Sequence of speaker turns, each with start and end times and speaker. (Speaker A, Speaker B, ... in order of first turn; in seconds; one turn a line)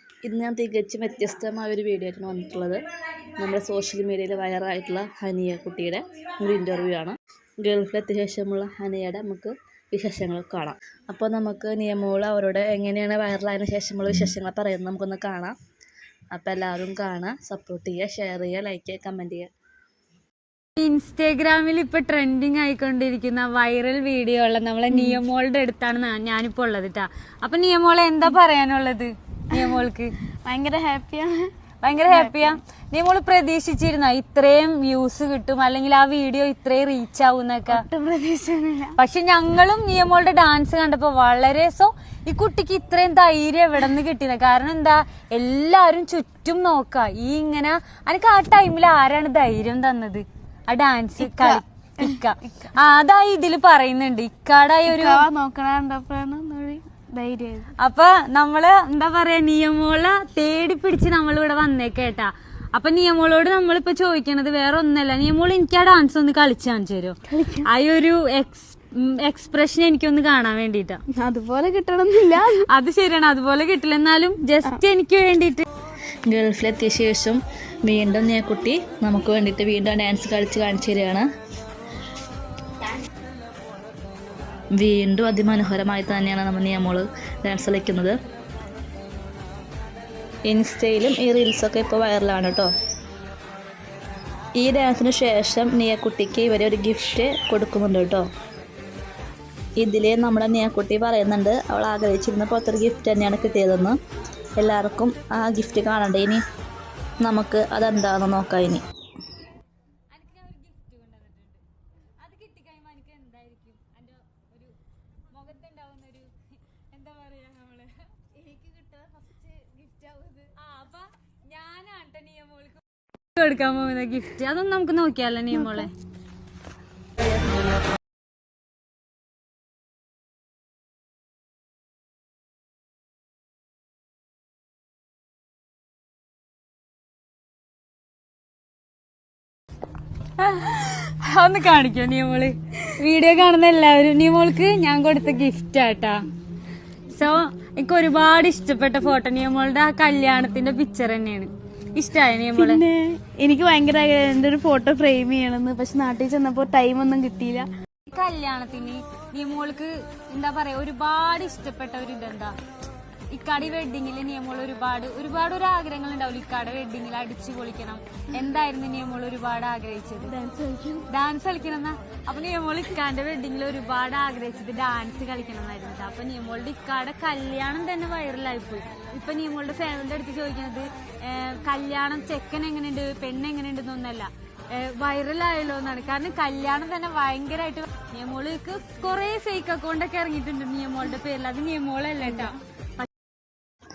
Speaker A: 0.2-2.8
Speaker A: 3.4-15.5
Speaker A: 16.3-19.5
Speaker B: 20.8-30.1
Speaker C: 24.9-25.2
Speaker C: 30.4-31.5
Speaker B: 31.8-37.8
Speaker C: 32.1-32.6
Speaker C: 37.7-39.0
Speaker B: 39.0-55.3
Speaker C: 51.2-52.2
Speaker C: 54.9-57.7
Speaker B: 57.8-71.0
Speaker C: 67.3-67.7
Speaker C: 71.2-72.7
Speaker B: 72.5-75.6
Speaker A: 76.3-81.2
Speaker A: 84.8-88.2
Speaker A: 90.5-92.7
Speaker A: 94.6-98.2
Speaker A: 99.8-104.0
Speaker A: 104.6-106.4
Speaker A: 107.2-108.8
Speaker B: 110.1-111.6
Speaker B: 112.2-114.8
Speaker B: 115.3-118.1
Speaker C: 118.4-120.5
Speaker B: 120.6-122.8
Speaker B: 123.3-125.9
Speaker C: 125.5-125.9
Speaker B: 140.4-146.2
Speaker B: 147.1-152.8
Speaker C: 152.5-157.7
Speaker B: 158.1-162.5
Speaker B: 163.3-170.3
Speaker C: 170.2-171.1
Speaker B: 171.1-193.1